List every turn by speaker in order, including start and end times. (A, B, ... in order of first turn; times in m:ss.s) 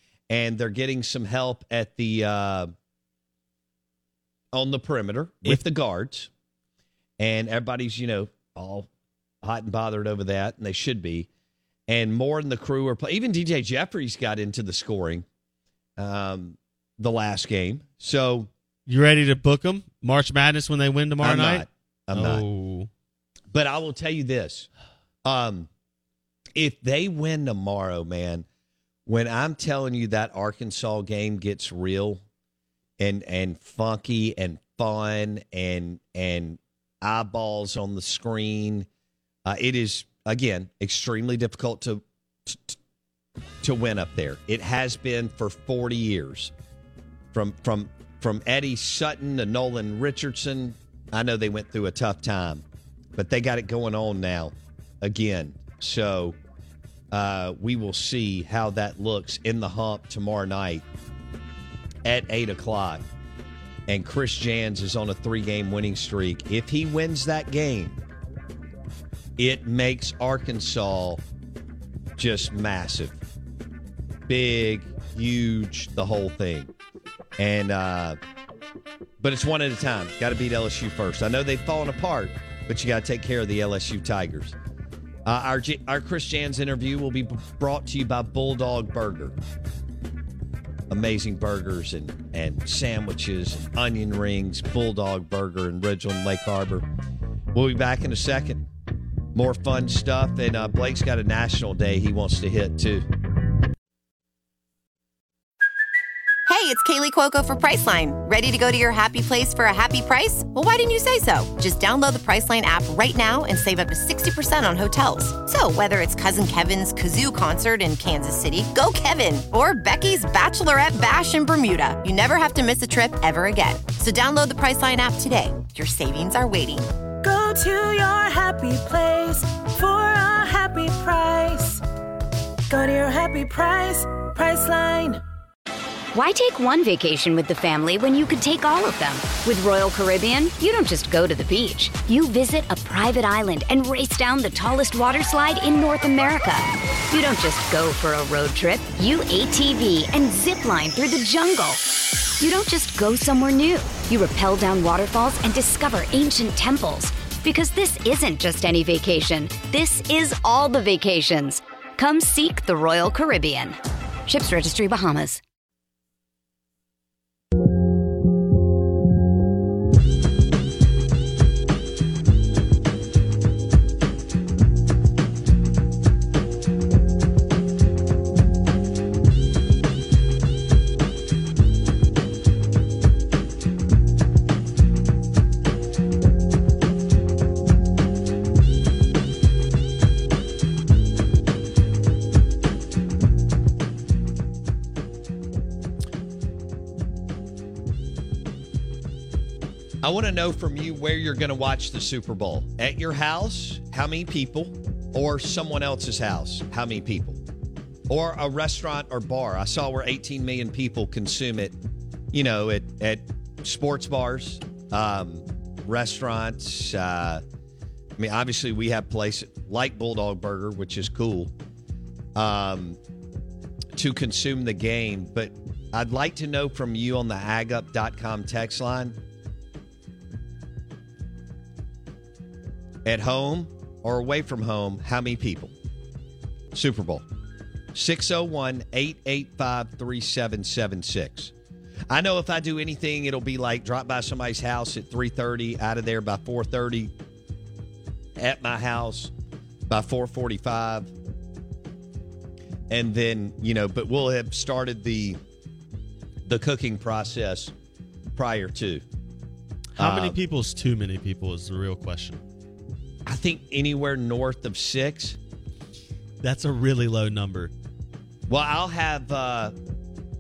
0:00.3-0:02.7 A
0:04.5-0:06.3 A
0:07.2-0:08.9 A
0:09.4-0:11.3 A
0:11.9-0:15.3 A
0:16.0-0:18.5 A
0:18.9-0:22.9 B
0:21.2-0:22.4 A
0:23.5-0:24.7 A
0:25.2-0:25.7 A
0:26.6-0:28.5 A
0:29.1-0:32.2 A
0:33.0-0:38.9 A
0:39.4-0:42.8 A
0:43.6-0:46.5 A
0:47.3-0:52.6 A
0:53.2-0:56.4 A
0:57.1-1:00.8 A
1:02.0-1:03.0 A
1:03.9-1:08.0 A
1:09.4-1:11.2 A
1:12.2-1:13.2 A
1:14.3-1:16.7 A
1:17.4-1:18.2 A
1:19.2-1:24.6 A
1:25.2-1:29.4 A
1:30.9-1:36.9 A
1:37.5-1:38.7 A
1:39.3-1:43.1 A
1:46.5-2:06.9 C
2:07.2-2:11.8 D
2:12.7-2:15.2 D
2:16.1-2:31.8 E
2:32.4-2:45.4 E
3:20.0-3:27.4 A
3:28.1-3:31.8 A
3:32.3-3:37.4 A
3:38.2-3:41.5 A
3:42.4-3:43.0 A
3:44.0-3:49.2 A
3:53.0-3:55.7 A
3:56.7-3:57.2 A
3:57.9-4:01.5 A
4:02.1-4:07.1 A
4:08.4-4:09.3 A
4:09.9-4:11.1 A
4:12.9-4:15.4 A
4:16.4-4:17.7 A
4:18.4-4:19.0 A
4:20.0-4:22.4 B
4:20.0-4:20.4 A
4:23.3-4:25.4 A
4:26.4-4:27.7 B
4:28.5-4:29.8 A